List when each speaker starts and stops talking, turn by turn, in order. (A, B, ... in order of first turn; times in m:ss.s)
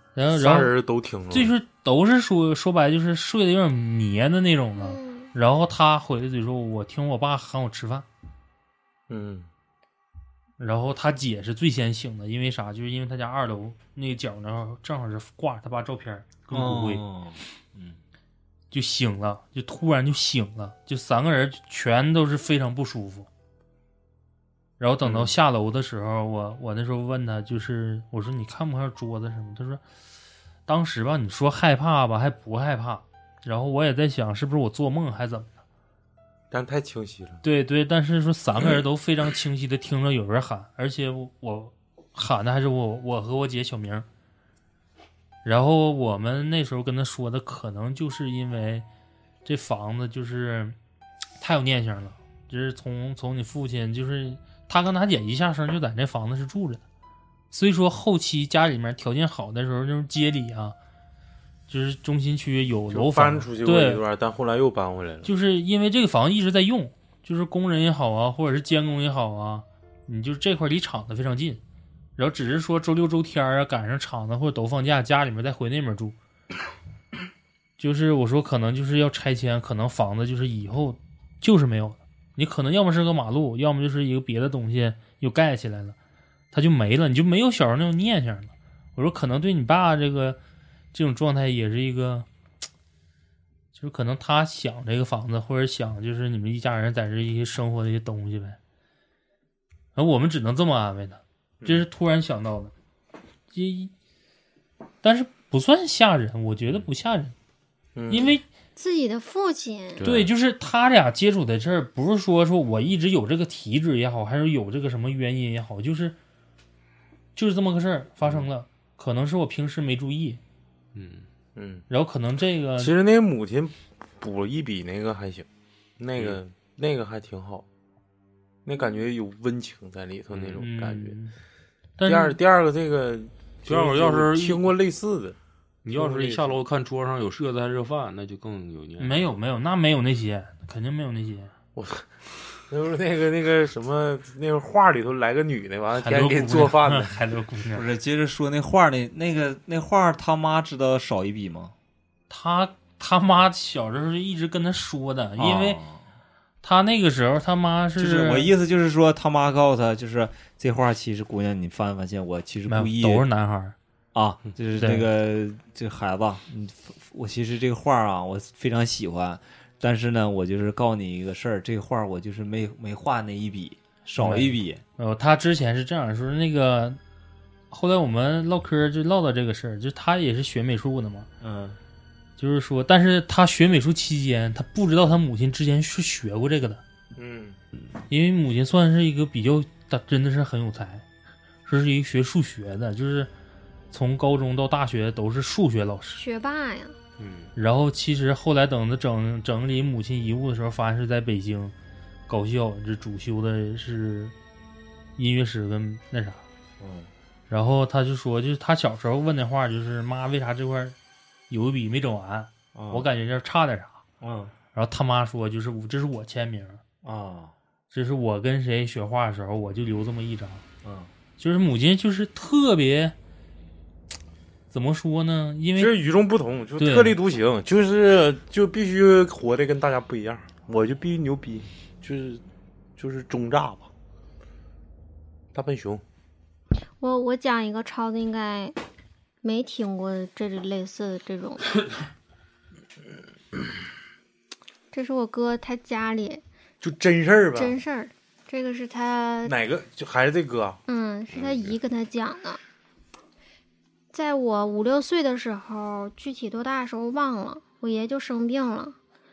0:00.2-0:00.7 A
0:00.3-0:01.5 B
0:01.3-0:08.1 A
0:04.8-0:05.3 C
0:09.1-0:09.5 B
0:10.6-0:17.0 A
0:16.5-0:18.0 D
0:18.7-0:23.3 A
0:24.8-0:29.8 A
0:30.7-0:35.6 A
0:36.5-0:37.4 B
0:37.4-0:44.0 A
0:45.4-0:48.8 A
0:49.4-0:50.8 A
0:51.4-0:56.8 A
0:57.5-1:00.8 A
1:01.7-1:04.0 A
1:02.9-1:05.3 B
1:05.2-1:11.6 A
1:12.2-1:16.2 A
1:17.8-1:26.0 A
1:26.5-1:30.4 A
1:30.9-1:32.3 A
1:33.7-1:38.6 A
1:40.0-1:42.7 A
1:41.6-1:41.9 B
1:43.5-1:43.9 A
1:45.0-1:47.3 A
1:48.0-1:48.4 B
1:48.1-1:48.4 A
1:48.8-1:50.1 C
1:50.0-1:50.3 E
1:50.0-1:56.2 A
1:57.4-2:00.4 A
2:01.0-2:01.3 E
2:01.6-2:01.9 B
2:01.9-2:02.9 A
2:02.8-2:05.5 B
2:06.0-2:07.7 B
2:08.7-2:11.2 B
2:10.3-2:10.6 E
2:10.6-2:11.3 A
2:12.0-2:12.4 A
2:12.0-2:15.4 B
2:13.7-2:14.7 E
2:15.8-2:19.3 E
2:15.9-2:16.6 B
2:19.0-2:21.5 A
2:21.8-2:22.1 B
2:22.7-2:27.1 B
2:25.9-2:27.9 A
2:27.7-2:31.7 D
2:32.3-2:35.8 A
2:35.4-2:36.0 D
2:36.6-2:38.5 A
2:38.0-2:43.3 D
2:42.7-2:43.8 A
2:44.1-2:54.8 D
2:44.8-2:45.1 A
2:54.2-2:57.0 A
2:57.7-3:01.3 A
3:01.4-3:01.8 D
3:02.4-3:06.8 A
3:07.2-3:07.6 B
3:08.1-3:11.0 A
3:11.7-3:13.3 A
3:13.9-3:16.2 A
3:16.2-3:17.0 C
3:17.2-3:17.5 E
3:17.6-3:21.7 A
3:22.3-3:24.3 A
3:25.2-3:26.4 A
3:26.8-3:27.1 D
3:27.5-3:31.0 A
3:31.5-3:34.0 A
3:32.7-3:33.1 D
3:34.2-3:34.5 D
3:34.7-3:36.8 A
3:37.0-3:37.5 D
3:37.9-3:40.6 A
3:40.8-3:41.1 D
3:41.4-3:43.1 A
3:44.7-3:46.0 A
3:45.8-3:52.4 B
3:46.8-3:47.2 A
3:53.0-3:53.9 B
3:55.5-3:56.0 B
3:57.0-3:58.8 C
3:59.4-4:01.8 C
4:04.9-4:06.4 C
4:06.8-4:07.8 B
4:07.6-4:09.6 C
4:09.4-4:10.8 B
4:10.9-4:12.6 C
4:11.3-4:11.8 E
4:14.1-4:19.0 C